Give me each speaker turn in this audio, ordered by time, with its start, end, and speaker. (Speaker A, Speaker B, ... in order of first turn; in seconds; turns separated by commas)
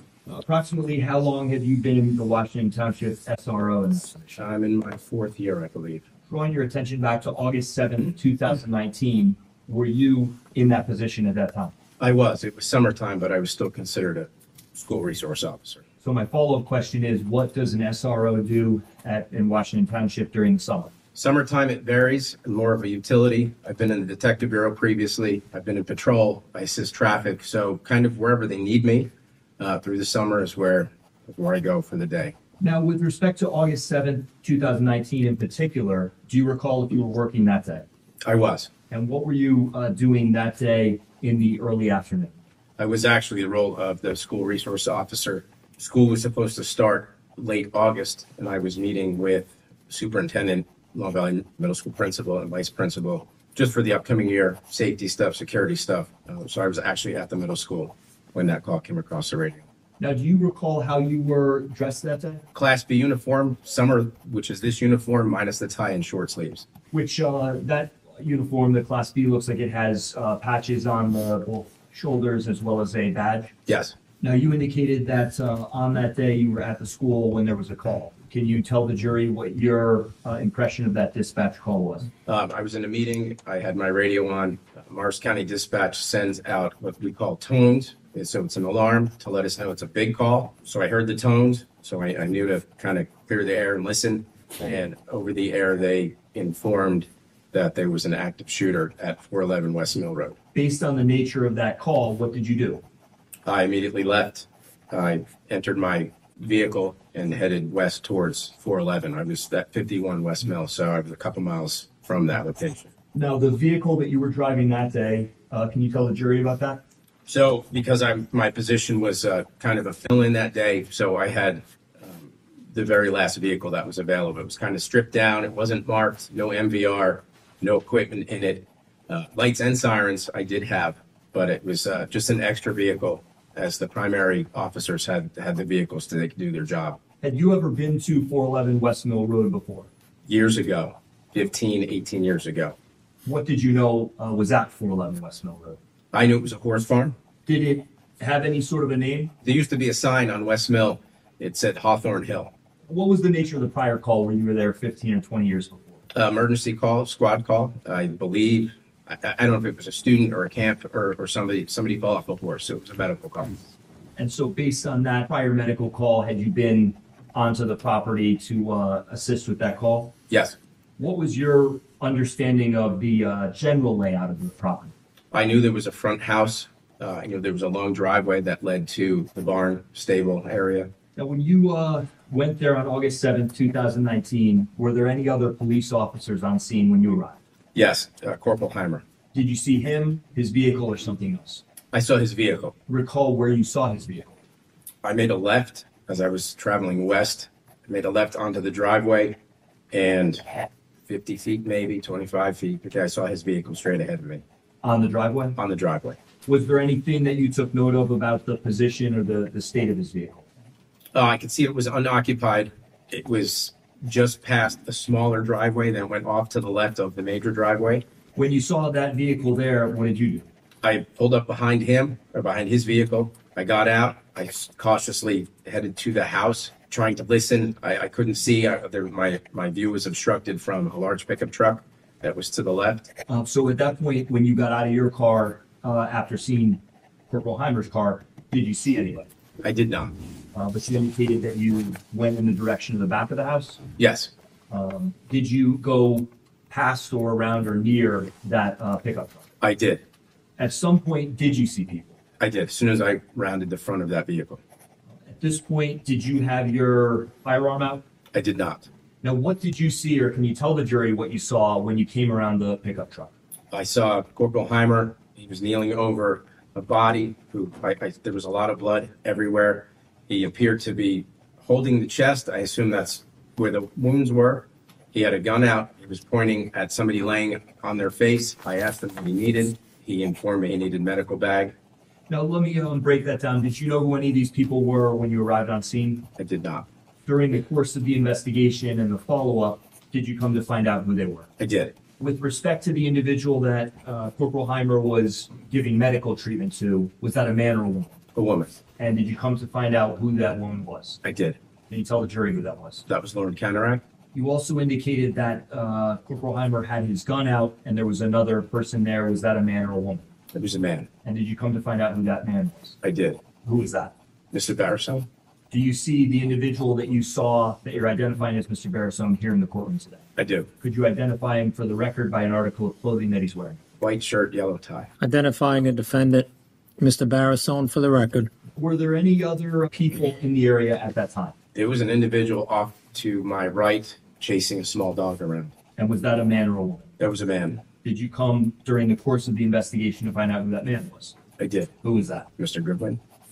Speaker A: 0.3-4.2, Speaker B: 4.3-6.0, Speaker A: 6.3-11.7, Speaker B: 12.0-15.8, Speaker A: 16.0-20.9, Speaker B: 21.1-32.4, Speaker A: 32.6-37.9, Speaker B: 38.2-38.7, Speaker A: 38.9-42.4, Speaker B: 42.8-59.6, Speaker A: 60.0-62.5, Speaker B: 62.5-66.7, Speaker A: 66.9-73.5, Speaker B: 73.7-74.0, Speaker A: 74.2-82.1, Speaker B: 82.3-100.4, Speaker A: 100.5-102.8, Speaker B: 103.5-112.9, Speaker A: 113.1-116.8, Speaker B: 117.3-137.0, Speaker A: 137.2-139.9, Speaker B: 140.3-142.8, Speaker A: 143.2-145.8, Speaker B: 146.1-147.2, Speaker A: 147.5-149.3, Speaker B: 149.4-152.5, Speaker A: 152.9-156.0, Speaker B: 156.1-163.6, Speaker A: 164.2-170.1, Speaker B: 170.3-170.6, Speaker A: 171.0-174.9, Speaker B: 175.3-180.9, Speaker A: 181.2-187.4, Speaker B: 187.7-189.0, Speaker A: 189.3-191.6, Speaker B: 191.9-192.8, Speaker A: 192.9-194.4, Speaker B: 195.0-199.4, Speaker B: 199.9-204.4, Speaker A: 204.8-205.6, Speaker B: 205.6-206.2, Speaker A: 206.5-210.4, Speaker B: 211.1-218.0, Speaker A: 218.4-220.5, Speaker B: 220.8-233.1, Speaker A: 233.3-239.3, Speaker B: 239.6-240.2, Speaker A: 240.5-243.8, Speaker B: 244.0-244.3, Speaker A: 244.7-249.5, Speaker B: 249.6-250.0, Speaker A: 250.6-252.2, Speaker B: 252.4-254.6, Speaker A: 255.3-258.0, Speaker B: 258.3-258.9, Speaker A: 259.2-263.3, Speaker B: 263.7-281.8, Speaker A: 282.3-286.3, Speaker B: 286.4-286.9, Speaker A: 287.2-291.5, Speaker B: 291.6-291.9, Speaker A: 292.2-298.2, Speaker B: 298.4-298.8, Speaker A: 299.0-301.2, Speaker B: 301.2-301.6, Speaker A: 301.9-303.1, Speaker B: 303.1-304.0, Speaker A: 304.3-310.3, Speaker B: 310.5-311.1, Speaker A: 311.2-313.0, Speaker B: 313.0-313.4, Speaker A: 313.6-314.1, Speaker B: 314.5-315.3, Speaker A: 315.7-320.3, Speaker B: 320.4-320.7, Speaker A: 320.8-323.8, Speaker B: 324.0-325.1, Speaker C: 325.2-328.5, Speaker A: 328.7-331.5, Speaker B: 331.8-335.7, Speaker A: 336.0-337.1, Speaker B: 337.2-337.8, Speaker A: 338.0-341.4, Speaker B: 341.6-341.9, Speaker A: 342.0-342.5, Speaker B: 342.6-343.2